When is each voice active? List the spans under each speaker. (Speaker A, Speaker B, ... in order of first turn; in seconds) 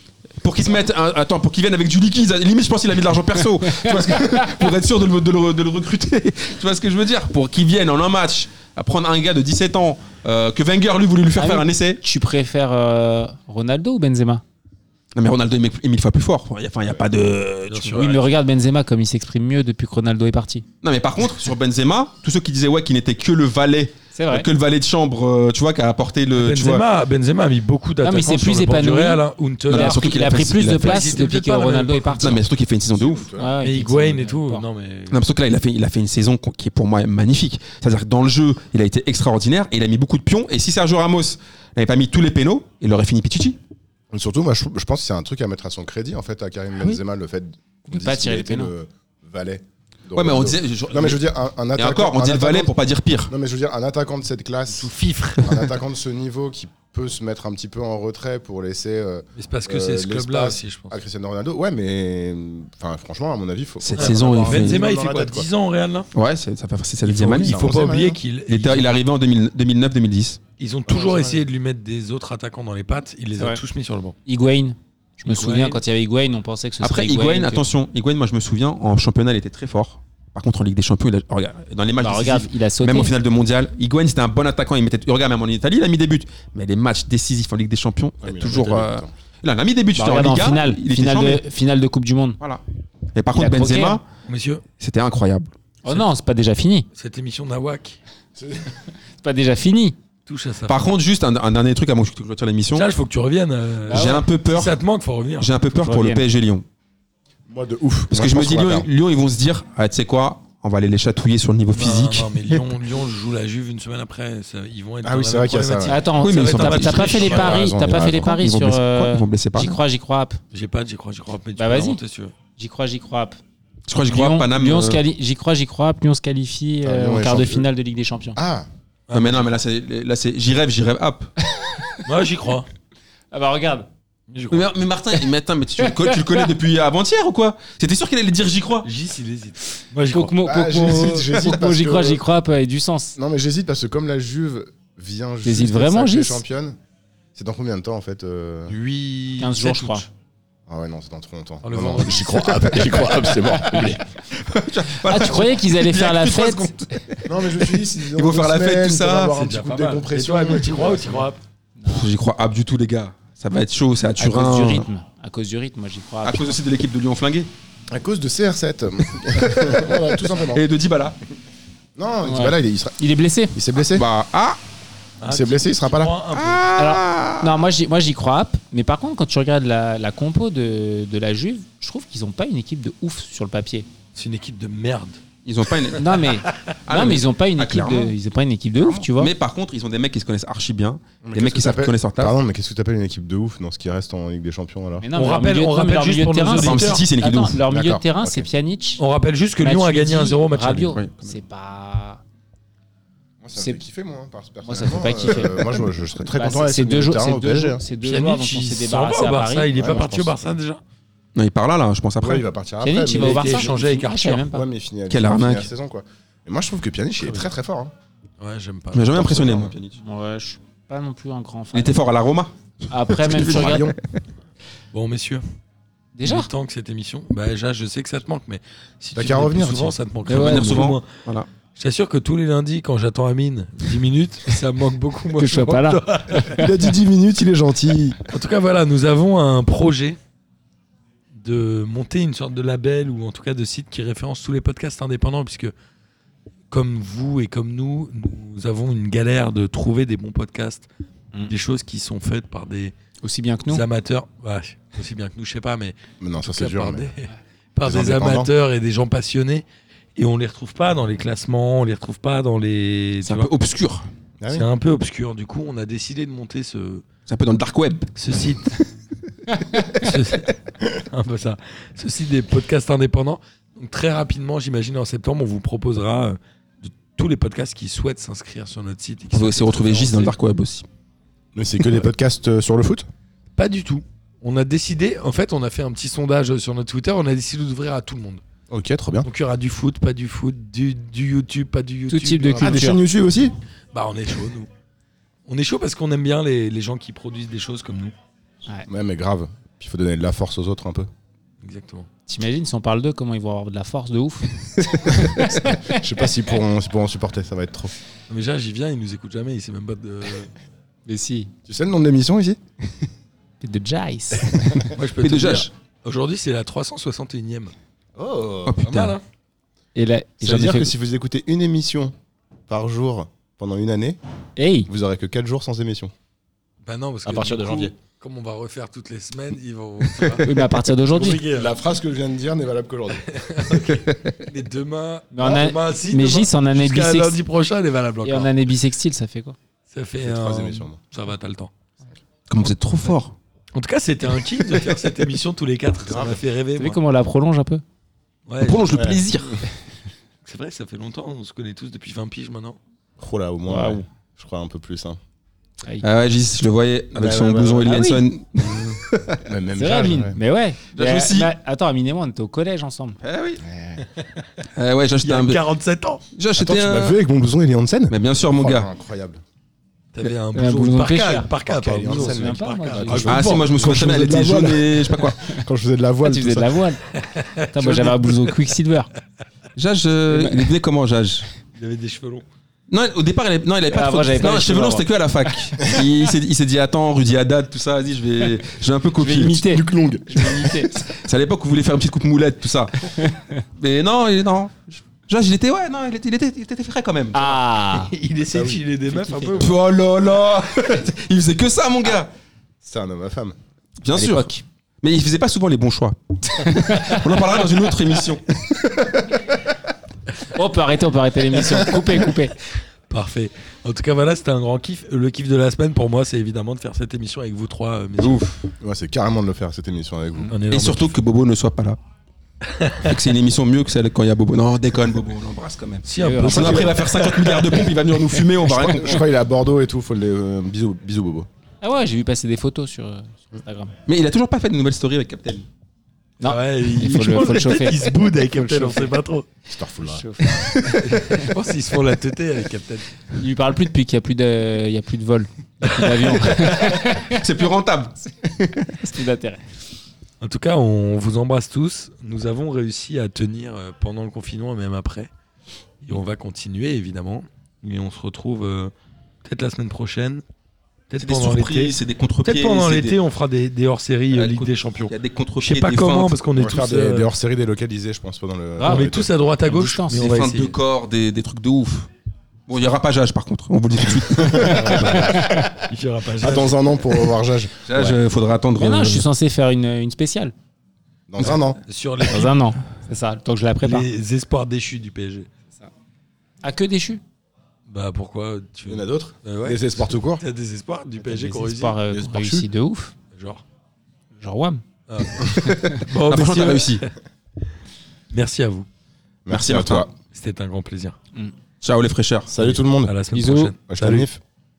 Speaker A: 0.4-12.0, 15.2-18.2, 20.8-26.8, 29.7-31.2, 32.2-33.3, 35.1-43.6, 50.2-51.2, 51.8-53.3, 63.8-64.8, 66.1-67.8, 68.5-70.4, 76.8-91.4, 93.1-94.0, 94.8-95.5, 100.7-102.9, 103.9-104.8, 105.4-106.7, 108.1-112.7, 116.2-119.8, 123.9-125.0, 129.1-131.3, 134.5-138.9, 154.3-159.3, 161.9-164.9, 166.2-167.5, 169.2-171.2, 173.9-174.6, 176.3-177.6, 185.4-186.3, 186.9-188.1, 189.1-192.3, 196.5-197.6, 200.9-201.3, 211.3-212.5, 215.1-215.7, 218.9-220.0, 221.7-222.5, 223.1-223.9, 230.3-231.5, 263.2-264.1, 267.3-268.1, 279.3-280.9, 315.2-315.7, 318.6-319.2, 342.5-343.4, 348.6-349.6, 356.0-359.4, 360.9-361.5, 363.2-363.6, 364.8-365.6, 366.3-367.2, 368.1-368.9, 373.3-375.4, 379.8-381.5, 382.9-389.7, 390.9-397.6, 399.6-402.3, 404.0-404.5, 405.0-409.1, 418.2-418.5, 420.7-422.0, 423.0-429.2, 434.1-435.7, 440.5-441.0, 446.6-448.8, 461.2-463.2, 464.3-466.4, 470.1-472.1, 472.7-475.2, 477.9-479.3, 495.5-497.1, 499.5-500.1, 501.8-502.5
Speaker B: 3.6-4.4, 11.4-14.4, 17.9-20.6, 24.1-24.5, 28.0-32.4, 33.4-34.6, 47.9-48.7, 74.3-77.7, 82.0-83.1, 90.0-92.4, 93.3-94.0, 95.8-96.9, 99.2-100.0, 103.9-104.3, 105.7-106.2, 115.8-120.4, 121.6-122.0, 122.6-123.4, 124.1-128.4, 131.4-132.1, 133.3-133.9, 135.8-136.5, 140.1-143.2, 145.4-146.4, 149.4-150.1, 153.3-153.9, 155.0-156.7, 161.8-162.1, 164.2-166.6, 172.2-173.6, 176.8-183.9, 186.0-189.3, 195.0-199.0, 199.6-202.2, 204.6-209.7, 212.8-214.7, 220.0-222.0, 222.9-223.9, 226.2-226.5, 230.3-230.9, 235.4-236.7, 253.2-253.8, 292.1-293.0, 302.3-306.1, 311.1-311.5, 313.6-314.9, 319.9-320.9, 324.6-324.9, 330.4-331.4, 335.3-337.4, 338.2-339.6, 346.8-347.8, 353.7-354.1, 357.8-358.2, 359.8-363.2, 370.6-373.6, 376.2-377.0, 377.7-379.1, 380.3-380.7, 383.9-385.1, 389.2-390.9, 393.2-393.6, 397.3-398.1, 399.1-399.6, 404.1-404.6, 406.6-407.2, 410.4-412.6, 426.2-426.9, 431.8-433.9, 436.4-439.1, 440.0-441.5, 443.4-447.4, 448.9-449.6, 468.8-470.4, 475.1-475.6, 477.9-478.2, 478.8-480.5, 482.2-484.1, 486.6-487.2, 491.2-493.1, 494.4-494.8, 495.4-496.0, 503.3-503.7
Speaker C: 17.7-18.2, 26.3-32.4, 33.6-35.2, 54.7-55.7, 59.4-61.0, 64.0-66.1, 67.3-69.0, 70.6-74.2, 75.3-75.8, 94.3-94.6, 96.9-98.0, 100.3-100.9, 102.7-105.5, 111.7-117.7, 120.5-122.3, 129.1-129.6, 132.1-132.7, 134.3-134.7, 138.8-140.3, 148.7-150.1, 151.6-153.8, 159.3-161.4, 175.2-176.7, 184.2-185.2, 195.1-197.1, 199.0-201.0, 208.0-210.8, 213.1-214.5, 218.4-219.8, 224.9-225.4, 226.2-231.1, 231.8-236.7, 238.3-240.2, 241.3-245.7, 246.7-250.9, 251.4-252.9, 253.7-263.5, 264.5-267.0, 268.2-268.8, 269.8-280.4, 283.6-288.4, 289.2-292.9, 293.9-294.7, 295.5-298.1, 301.6-302.1, 308.3-310.5, 314.9-317.7, 318.9-319.2, 326.8-330.5, 331.1-331.8, 333.3-338.5, 339.9-341.7, 343.8-347.0, 348.5-349.1, 350.4-352.8, 365.2-366.2, 370.1-374.2, 377.2-378.4, 381.7-382.4, 397.9-399.8, 413.1-418.6, 420.5-421.1, 422.6-423.1, 426.1-427.9, 436.4-439.5, 440.9-443.1, 445.8-446.5, 450.4-455.3, 456.0-458.9, 459.4-460.4, 461.1-467.3, 468.8-470.8, 474.6-477.0, 481.8-482.5, 483.8-485.5, 487.9-492.0, 493.3-493.6, 495.1-497.1, 498.3-498.9, 500.3-501.2, 502.6-504.3
Speaker D: 32.9-33.6, 44.1-52.7, 53.3-65.5, 67.0-68.2, 70.9-71.5, 88.2-89.1, 98.4-98.8, 107.5-108.9, 115.0-116.0, 117.0-118.3, 126.8-127.7, 128.4-128.7, 140.4-142.2, 143.2-146.8, 147.3-148.8, 150.7-154.0, 157.3-161.3, 167.9-170.6, 172.0-173.0, 173.5-174.1, 175.3-176.2, 191.2-195.1, 197.7-198.5, 203.4-207.8, 209.7-210.4, 212.2-213.8, 214.4-217.9, 223.3-224.0, 229.2-230.0, 236.3-238.2, 256.2-257.1, 257.9-258.5, 264.4-264.7, 281.6-283.1, 288.7-289.3, 292.6-293.5, 298.9-301.1, 305.1-307.9, 311.7-312.6, 314.4-314.8, 318.2-318.9, 320.4-322.1, 322.7-324.2, 324.9-326.1, 327.3-327.9, 330.2-330.4, 331.2-334.0, 340.2-341.0, 346.0-346.4, 348.9-349.2, 353.2-355.2, 357.1-358.1, 358.6-360.4, 363.6-364.1, 366.6-369.4, 371.6-376.9, 389.6-390.9, 398.5-398.8, 402.8-403.6, 418.8-420.6, 428.7-431.5, 439.7-440.5, 466.6-469.3, 474.1-475.9, 476.4-477.8, 481.3-481.8, 488.9-490.4, 492.1-492.7, 499.5-500.1, 502.5-503.2, 503.9-504.4